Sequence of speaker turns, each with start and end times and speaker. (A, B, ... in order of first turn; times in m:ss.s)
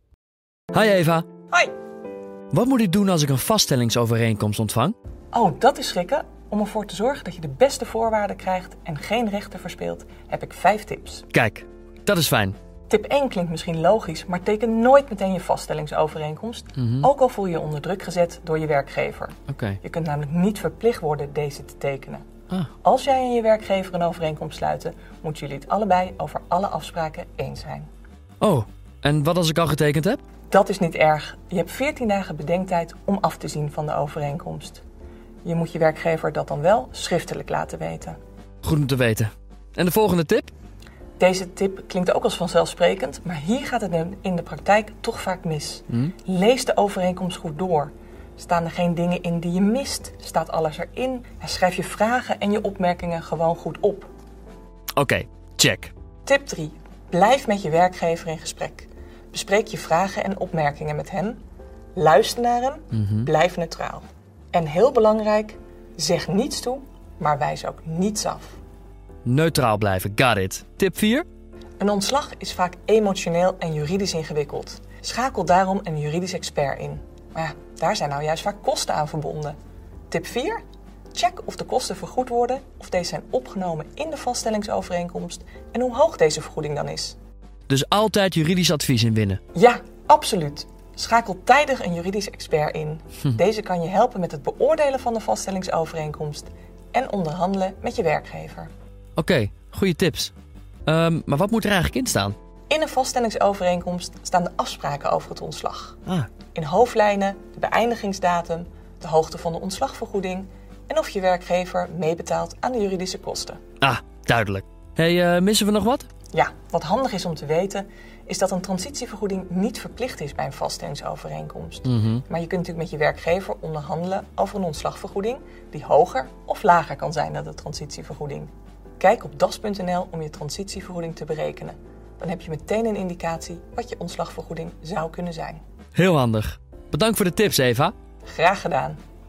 0:00.7-0:01.2 A
0:02.5-0:04.9 A
0:05.3-0:11.2 B
0:11.3-0:12.6 A
0:12.9-0:22.2 B
0:16.8-0:17.1 A
0:19.5-0:19.8 A
0:22.8-0:27.9 B
0:28.4-0:30.2 A
0:30.5-0:34.8 B
0:35.4-0:38.2 B
0:38.6-0:40.5 A
0:41.2-0:54.1 B
0:55.0-0:55.9 A
0:56.2-1:01.4 B
1:02.0-1:08.6 B
1:02.9-1:03.3 A
1:09.2-1:11.2 A
1:11.8-1:19.6 B
1:20.1-1:20.6 B
1:21.1-1:27.2 B
1:27.7-1:29.4 A
1:29.5-1:38.7 B
1:39.2-1:40.3 A
1:40.9-1:42.3 A
1:42.7-1:46.0 B
1:46.5-1:53.6 B
1:53.8-1:56.1 A
1:56.3-2:15.6 B
2:01.8-2:02.2 A
2:15.9-2:17.9 A
2:18.2-2:19.0 B